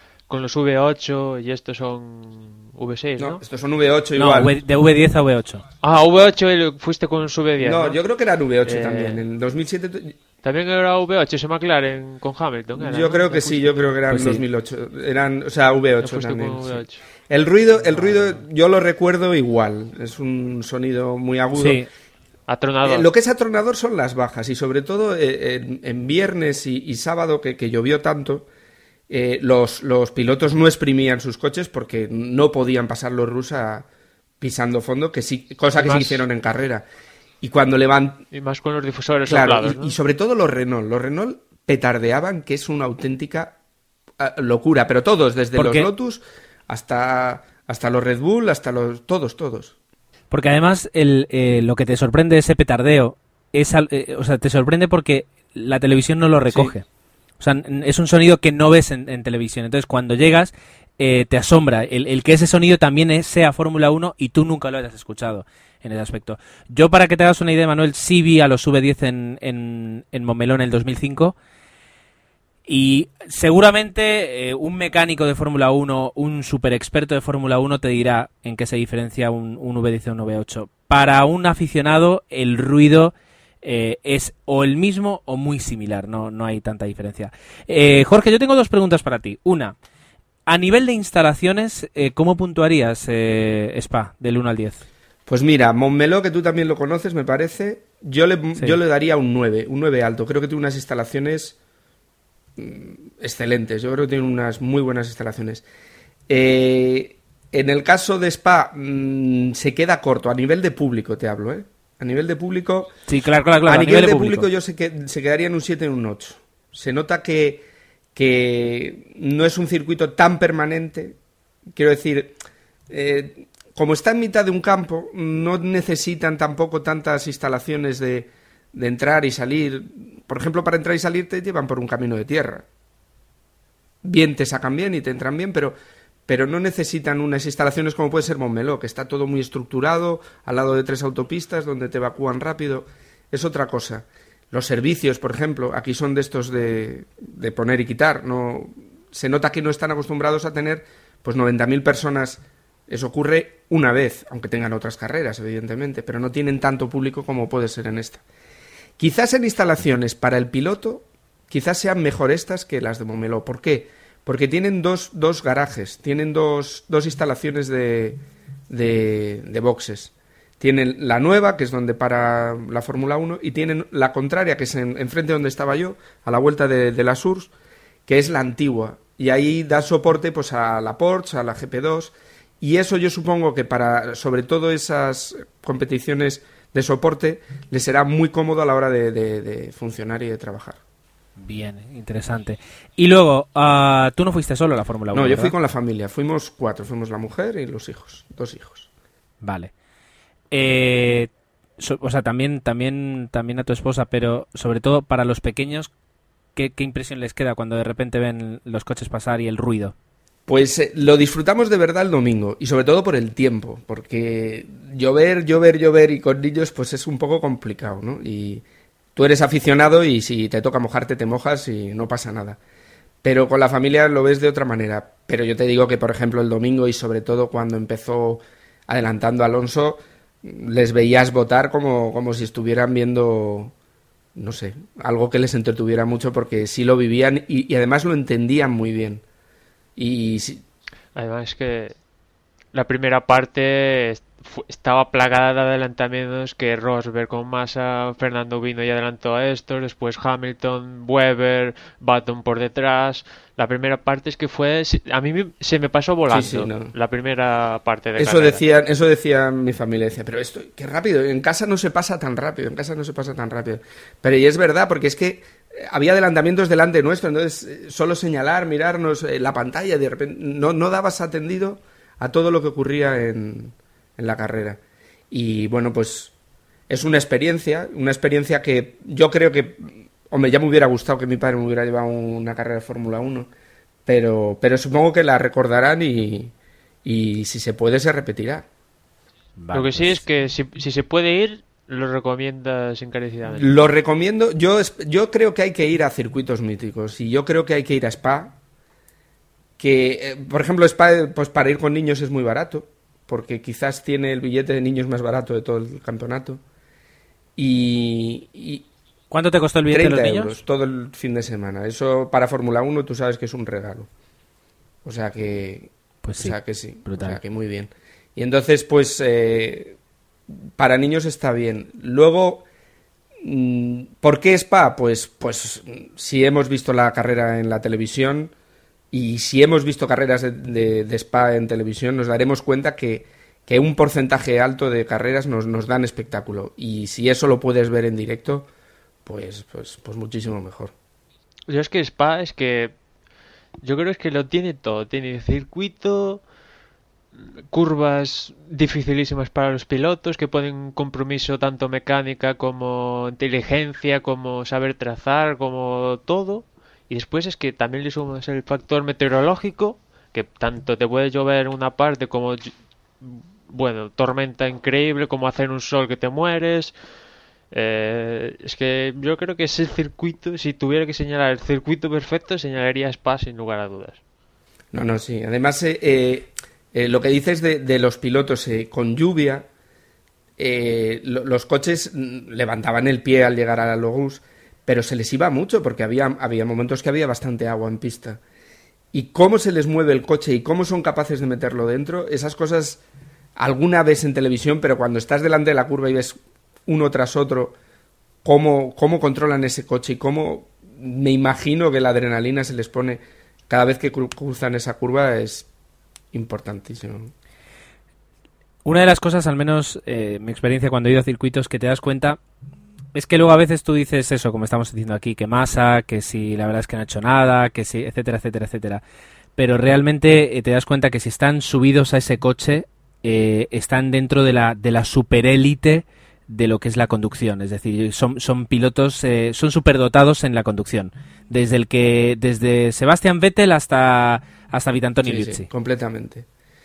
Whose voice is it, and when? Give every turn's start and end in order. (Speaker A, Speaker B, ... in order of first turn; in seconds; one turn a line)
Speaker A: 0.3-3.4
Speaker B: 3.2-4.5
Speaker C: 4.2-5.6
Speaker A: 5.8-8.0
Speaker B: 7.6-10.2
Speaker A: 8.6-9.2
Speaker A: 10.4-13.9
Speaker B: 12.8-21.8
Speaker C: 14.1-14.4
Speaker A: 16.0-17.0
Speaker C: 21.6-21.9
Speaker A: 22.5-23.1
Speaker B: 22.8-28.5
Speaker B: 29.1-33.9
Speaker B: 34.4-36.8
Speaker A: 35.8-36.2
Speaker B: 37.4-38.2
Speaker A: 38.3-40.0
Speaker B: 39.3-43.6
Speaker B: 44.2-49.7
Speaker C: 45.5-45.9
Speaker C: 50.3-56.8
Speaker C: 57.4-71.3
Speaker C: 72.7-89.7
Speaker C: 90.5-94.8
Speaker B: 95.3-101.6
Speaker B: 102.6-105.6
Speaker B: 106.3-112.9
Speaker C: 113.1-114.5
Speaker B: 113.7-117.6
Speaker B: 118.1-121.2
Speaker B: 121.7-122.4
Speaker B: 122.9-132.7
Speaker B: 134.0-135.7
Speaker B: 136.3-158.2
Speaker B: 159.0-177.5
Speaker B: 178.1-190.8
Speaker C: 191.4-195.5
Speaker B: 195.1-198.9
Speaker C: 199.4-199.7
Speaker C: 200.5-205.9
Speaker C: 206.6-209.9
Speaker B: 210.5-218.6
Speaker B: 219.2-222.6
Speaker B: 223.2-233.7
Speaker B: 234.3-239.2
Speaker B: 240.0-240.6
Speaker A: 241.1-241.9
Speaker A: 242.7-258.6
Speaker B: 256.3-256.9
Speaker B: 258.2-274.8
Speaker B: 275.3-276.3
Speaker B: 276.9-283.5
Speaker B: 284.1-286.5
Speaker B: 287.0-288.6
Speaker C: 289.6-290.2
Speaker A: 289.7-293.8
Speaker B: 293.6-298.6
Speaker B: 299.8-306.6
Speaker B: 307.6-308.9
Speaker C: 309.3-310.6
Speaker B: 309.9-314.1
Speaker B: 315.0-320.0
Speaker C: 316.2-317.4
Speaker B: 320.8-322.6
Speaker B: 323.4-328.5
Speaker B: 329.1-338.7
Speaker B: 339.2-340.9
Speaker A: 341.7-342.9
Speaker A: 343.8-346.4
Speaker A: 347.7-366.9
Speaker A: 367.7-374.2
Speaker B: 374.9-379.7
Speaker B: 380.6-388.4
Speaker B: 389.1-393.0
Speaker B: 393.6-397.8
Speaker B: 398.4-405.7
Speaker B: 406.3-407.3
Speaker C: 408.8-412.4
Speaker C: 413.1-419.0
Speaker C: 419.6-435.7
Speaker B: 435.2-436.4